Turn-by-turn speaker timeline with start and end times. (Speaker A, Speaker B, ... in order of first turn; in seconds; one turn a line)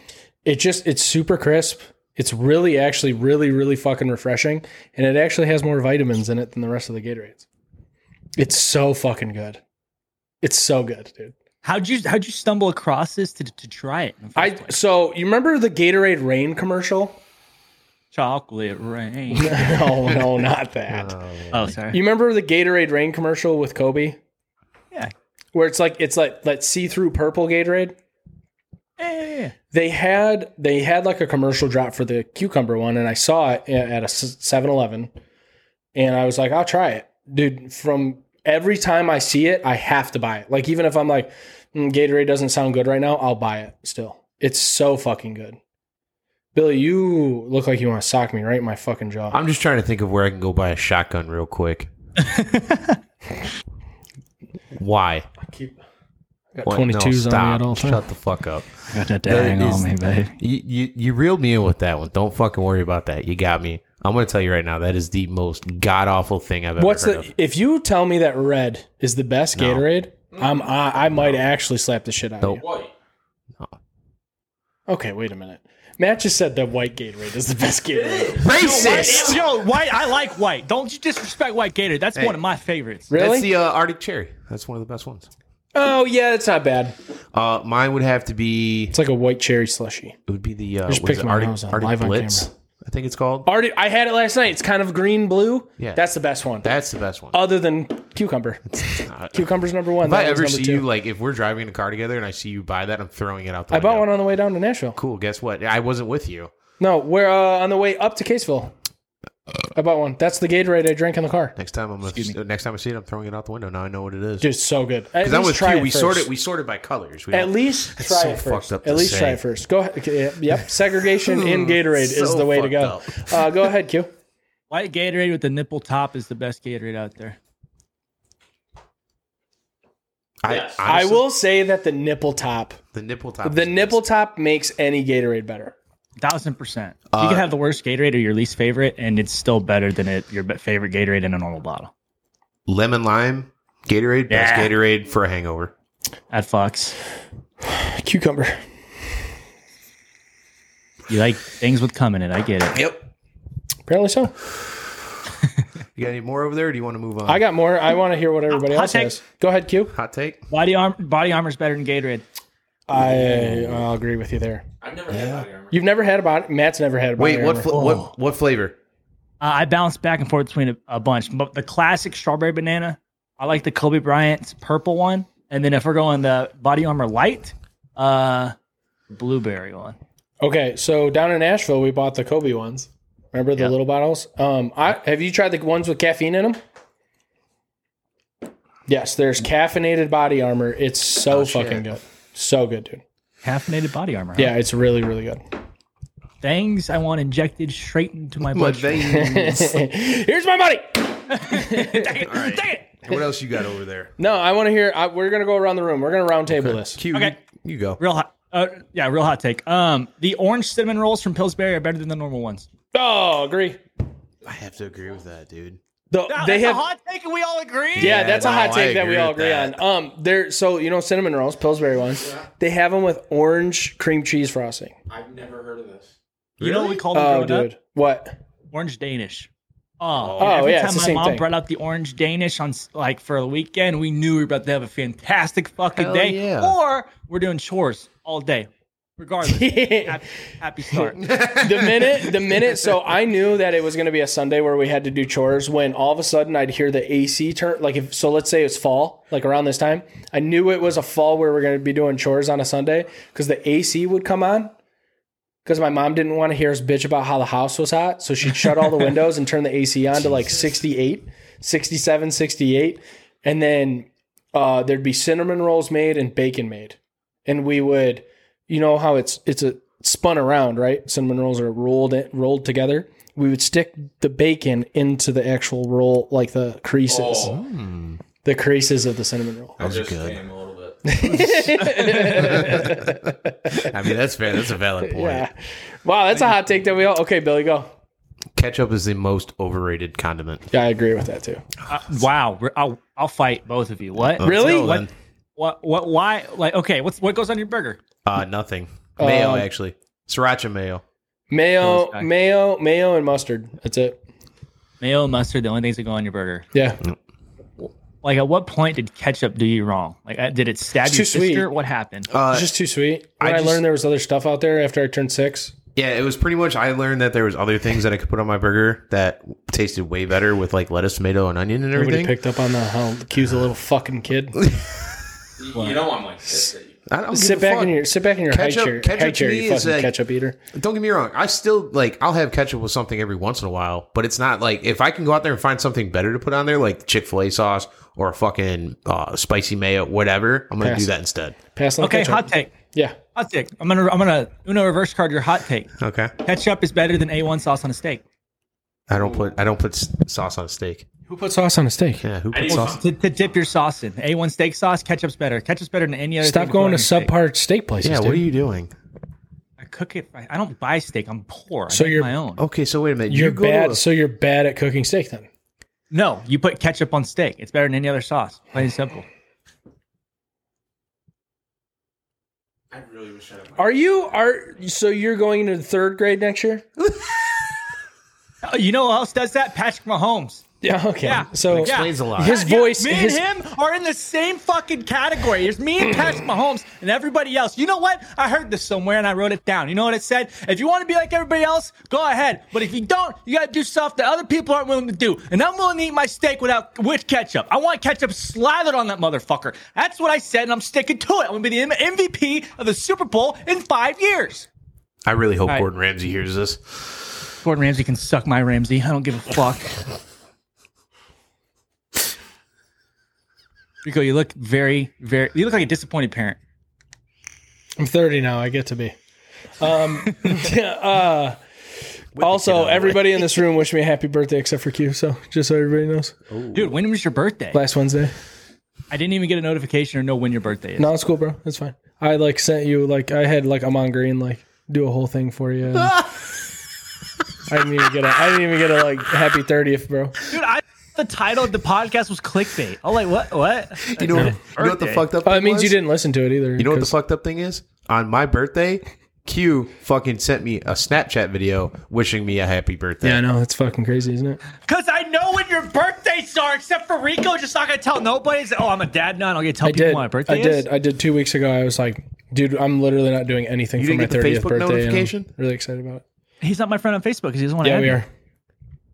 Speaker A: 0.5-7.5
Speaker A: 8.4-9.6
Speaker A: 10.4-11.3
Speaker B: 11.6-14.8
Speaker A: 14.4-17.2
Speaker B: 18.1-19.9
Speaker A: 19.3-21.1
Speaker C: 20.9-21.7
Speaker B: 21.5-22.0
Speaker A: 21.9-24.2
Speaker A: 25.5-28.0
Speaker B: 29.0-29.5
Speaker A: 29.7-35.1
Speaker A: 36.0-45.6
Speaker A: 46.5-49.4
Speaker C: 49.3-51.9
Speaker B: 52.2-53.0
Speaker C: 54.7-55.3
Speaker A: 55.5-55.8
Speaker A: 56.5-58.0
Speaker C: 56.6-67.3
Speaker B: 58.9-60.4
Speaker A: 66.8-72.6
Speaker C: 69.5-69.9
Speaker D: 70.3-70.8
Speaker D: 72.6-72.9
Speaker A: 74.9-79.4
Speaker D: 77.9-79.1
Speaker C: 78.4-79.4
Speaker B: 78.5-83.1
Speaker A: 83.1-83.5
Speaker C: 83.1-85.3
Speaker A: 85.7-87.0
Speaker C: 87.3-89.0
Speaker A: 88.9-90.2
Speaker C: 90.3-93.5
Speaker A: 90.9-92.5
Speaker A: 93.5-96.7
Speaker C: 95.8-96.0
Speaker C: 96.6-97.4
Speaker A: 97.3-100.8
Speaker C: 98.7-104.1
Speaker A: 103.7-105.0
Speaker C: 105.0-106.5
Speaker A: 106.8-108.7
Speaker A: 109.8-111.5
Speaker C: 111.6-114.5
Speaker B: 112.0-112.4
Speaker A: 114.4-116.3
Speaker C: 115.2-119.4
Speaker A: 117.3-124.1
Speaker C: 121.2-123.5
Speaker B: 124.7-127.4
Speaker C: 130.4-131.3
Speaker D: 130.5-130.8
Speaker A: 130.9-132.8
Speaker C: 132.9-134.0
Speaker A: 133.4-135.8
Speaker B: 136.2-141.9
Speaker C: 137.1-137.5
Speaker C: 142.7-145.7
Speaker B: 144.3-144.7
Speaker B: 146.3-146.9
Speaker A: 147.6-148.6
Speaker B: 151.1-152.8
Speaker C: 152.7-153.1
Speaker A: 153.9-154.3
Speaker C: 155.9-157.4
Speaker A: 157.3-159.9
Speaker B: 158.5-159.2
Speaker C: 159.9-160.4
Speaker B: 160.5-162.2
Speaker A: 162.9-164.7
Speaker C: 162.9-163.9
Speaker D: 164.8-165.8
Speaker C: 165.1-165.5
Speaker A: 165.7-167.7
Speaker C: 167.2-168.8
Speaker B: 167.7-168.1
Speaker B: 169.4-178.6
Speaker B: 179.1-180.0
Speaker A: 180.4-186.6
Speaker A: 188.9-193.0
Speaker C: 191.3-192.0
Speaker B: 193.4-194.6
Speaker A: 194.4-195.4
Speaker B: 196.4-199.0
Speaker C: 198.4-199.8
Speaker A: 199.1-202.2
Speaker B: 201.3-202.9
Speaker C: 202.2-204.1
Speaker A: 204.2-207.0
Speaker C: 206.5-208.0
Speaker B: 208.0-212.7
Speaker A: 212.9-213.8
Speaker C: 214.4-215.8
Speaker A: 216.1-216.8
Speaker B: 216.3-218.6
Speaker C: 218.0-219.8
Speaker A: 218.0-224.9
Speaker D: 225.1-226.1
Speaker C: 226.6-227.0
Speaker B: 226.6-227.7
Speaker A: 227.1-228.4
Speaker B: 228.7-229.5
Speaker B: 230.0-241.2
Speaker C: 230.2-230.8
Speaker A: 230.4-231.5
Speaker C: 236.0-236.8
Speaker A: 239.4-240.2
Speaker C: 241.2-242.8
Speaker A: 241.6-254.7
Speaker A: 255.7-277.6
Speaker D: 277.1-277.6
Speaker C: 277.4-278.2
Speaker A: 278.4-279.8
Speaker C: 279.8-280.4
Speaker D: 279.8-281.1
Speaker A: 281.1-283.9
Speaker C: 281.3-285.5
Speaker B: 281.9-282.2
Speaker A: 285.0-285.5
Speaker A: 286.0-287.9
Speaker C: 288.6-290.7
Speaker A: 290.7-291.6
Speaker B: 291.9-295.1
Speaker C: 294.2-295.1
Speaker A: 294.4-295.0
Speaker B: 295.6-298.0
Speaker C: 298.3-301.0
Speaker A: 299.2-299.7
Speaker A: 301.5-304.2
Speaker B: 301.8-302.3
Speaker B: 305.0-306.6
Speaker A: 306.7-307.0
Speaker B: 307.8-312.3
Speaker A: 311.1-311.7
Speaker C: 312.3-312.7
Speaker A: 312.5-315.7
Speaker C: 313.4-313.9
Speaker C: 315.9-322.4
Speaker A: 321.9-324.6
Speaker C: 324.7-324.9
Speaker D: 325.6-326.9
Speaker B: 325.7-326.0
Speaker C: 327.1-330.1
Speaker A: 327.3-330.6
Speaker C: 330.7-341.6
Speaker A: 340.8-341.1
Speaker A: 341.7-343.2
Speaker B: 342.0-342.7
Speaker B: 343.4-345.9
Speaker C: 346.0-346.3
Speaker B: 346.4-348.2
Speaker C: 349.1-351.1
Speaker A: 351.3-352.2
Speaker C: 352.2-353.0
Speaker D: 352.5-353.0
Speaker B: 352.7-357.3
Speaker A: 356.4-358.4
Speaker C: 358.0-358.9
Speaker B: 359.8-362.6
Speaker A: 361.9-362.3
Speaker C: 362.6-364.0
Speaker A: 363.3-365.5
Speaker B: 366.1-369.3
Speaker D: 372.9-374.2
Speaker A: 373.8-376.9
Speaker C: 377.0-377.3
Speaker B: 378.6-380.7
Speaker A: 380.8-383.4
Speaker B: 381.2-404.7
Speaker C: 381.6-382.6
Speaker C: 405.2-407.0
Speaker B: 407.6-410.0
Speaker B: 414.0-416.6
Speaker A: 418.0-419.1
Speaker A: 419.8-421.6
Speaker C: 422.3-423.6
Speaker A: 422.4-426.4
Speaker C: 426.5-426.9
Speaker B: 426.7-427.8
Speaker A: 427.7-428.3
Speaker B: 429.1-431.1
Speaker A: 431.0-436.2
Speaker A: 437.7-440.4
Speaker B: 440.5-445.2
Speaker C: 444.1-446.0
Speaker A: 445.4-447.1
Speaker C: 446.8-453.4
Speaker A: 453.2-454.6
Speaker B: 454.9-460.9
Speaker A: 459.8-466.2
Speaker C: 464.0-465.5
Speaker B: 466.6-468.2
Speaker A: 467.8-468.3